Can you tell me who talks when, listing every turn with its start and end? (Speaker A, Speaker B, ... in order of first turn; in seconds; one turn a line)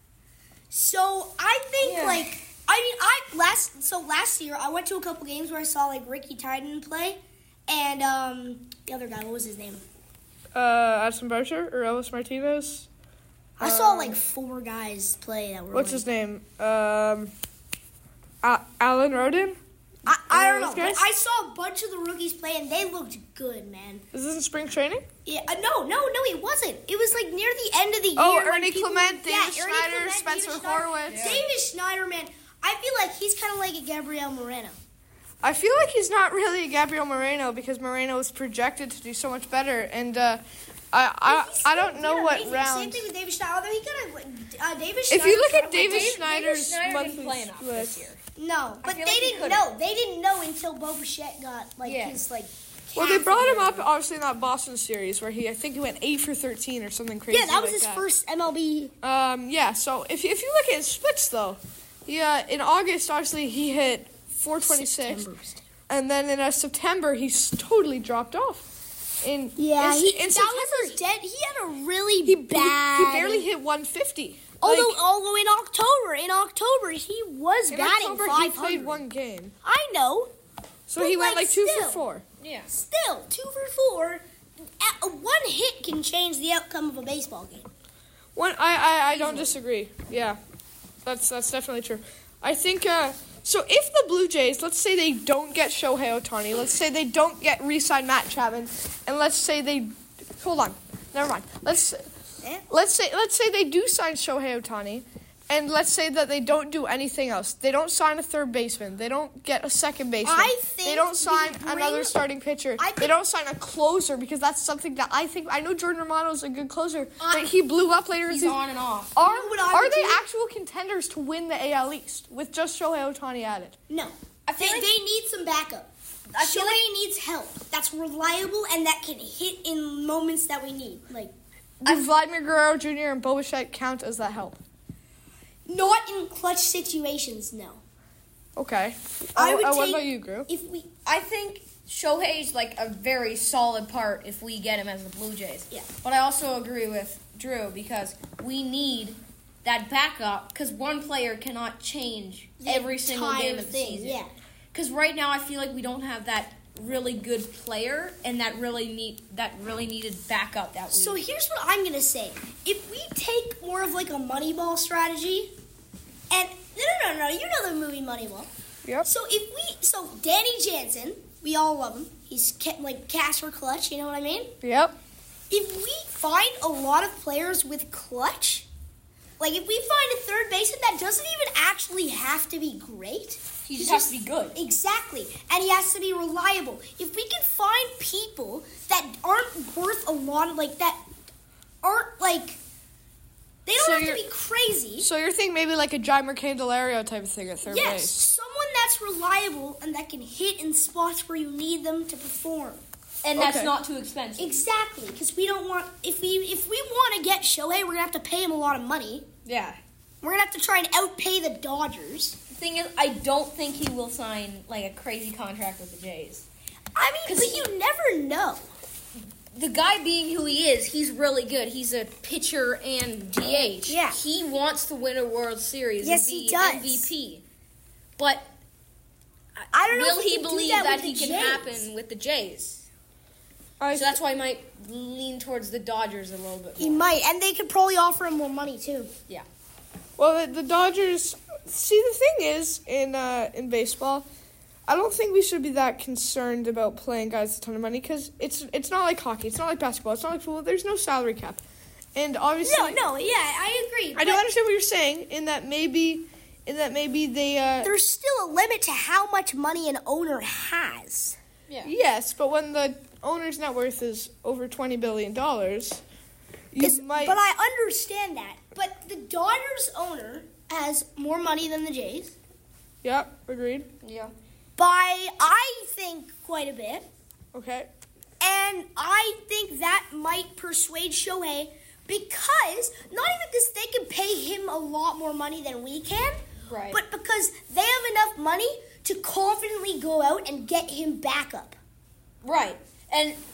Speaker A: 0.7-9.8
Speaker B: 1.8-2.3
Speaker C: 10.5-12.9
Speaker A: 13.6-16.0
Speaker C: 13.6-14.2
Speaker C: 15.7-17.3
Speaker C: 18.4-19.6
Speaker A: 20.1-24.0
Speaker C: 20.3-21.0
Speaker C: 24.1-25.1
Speaker A: 25.2-34.8
Speaker C: 28.1-31.4
Speaker B: 31.1-31.4
Speaker C: 35.4-43.1
Speaker A: 41.2-46.2
Speaker C: 45.1-48.0
Speaker B: 45.8-48.2
Speaker A: 48.4-53.5
Speaker B: 48.8-49.6
Speaker B: 51.8-52.2
Speaker C: 52.9-58.0
Speaker B: 53.3-53.8
Speaker A: 57.3-58.9
Speaker C: 59.0-65.3
Speaker A: 64.6-65.6
Speaker C: 65.9-68.7
Speaker C: 69.2-71.0
Speaker A: 69.6-73.5
Speaker C: 72.2-75.0
Speaker A: 74.6-79.0
Speaker C: 77.7-79.5
Speaker A: 79.6-80.3
Speaker C: 80.9-82.2
Speaker A: 81.0-82.0
Speaker B: 82.4-82.7
Speaker A: 82.7-84.2
Speaker A: 84.8-87.6
Speaker C: 88.3-90.4
Speaker B: 89.1-89.5
Speaker C: 91.0-102.0
Speaker C: 102.7-118.6
Speaker A: 110.2-112.2
Speaker A: 112.8-113.1
Speaker A: 117.2-117.5
Speaker B: 118.2-119.2
Speaker C: 119.2-123.8
Speaker A: 119.2-120.2
Speaker A: 123.9-131.3
Speaker B: 124.5-124.9
Speaker B: 126.3-126.8
Speaker C: 131.8-134.6
Speaker A: 135.7-137.8
Speaker C: 138.6-140.5
Speaker A: 139.3-140.9
Speaker B: 141.0-154.2
Speaker A: 152.6-154.3
Speaker B: 154.7-161.2
Speaker A: 160.9-165.5
Speaker A: 166.3-168.5
Speaker A: 169.1-174.6
Speaker C: 174.6-174.9
Speaker A: 175.5-178.7
Speaker A: 179.4-191.0
Speaker B: 183.7-184.6
Speaker A: 191.8-192.6
Speaker A: 193.6-195.1
Speaker C: 193.8-194.2
Speaker C: 195.0-198.2
Speaker A: 197.7-202.8
Speaker B: 203.2-204.6
Speaker C: 203.3-203.7
Speaker A: 204.4-209.3
Speaker B: 209.4-209.8
Speaker A: 210.2-212.4
Speaker B: 212.5-216.4
Speaker A: 216.9-218.6
Speaker B: 217.2-217.7
Speaker B: 219.5-227.4
Speaker A: 223.8-224.2
Speaker A: 226.0-227.1
Speaker B: 228.2-228.5
Speaker B: 229.6-232.9
Speaker A: 229.7-231.8
Speaker C: 233.8-234.1
Speaker B: 233.9-237.0
Speaker A: 236.8-239.1
Speaker C: 240.2-244.3
Speaker C: 244.9-251.6
Speaker C: 252.1-253.1
Speaker A: 252.6-254.4
Speaker C: 254.1-257.9
Speaker A: 257.8-261.4
Speaker C: 261.8-266.0
Speaker C: 266.7-267.4
Speaker A: 266.8-272.4
Speaker C: 273.0-273.9
Speaker B: 274.0-274.3
Speaker A: 274.8-277.1
Speaker C: 277.5-277.9
Speaker A: 278.4-286.4
Speaker B: 286.7-287.0
Speaker A: 286.9-291.8
Speaker B: 292.4-293.4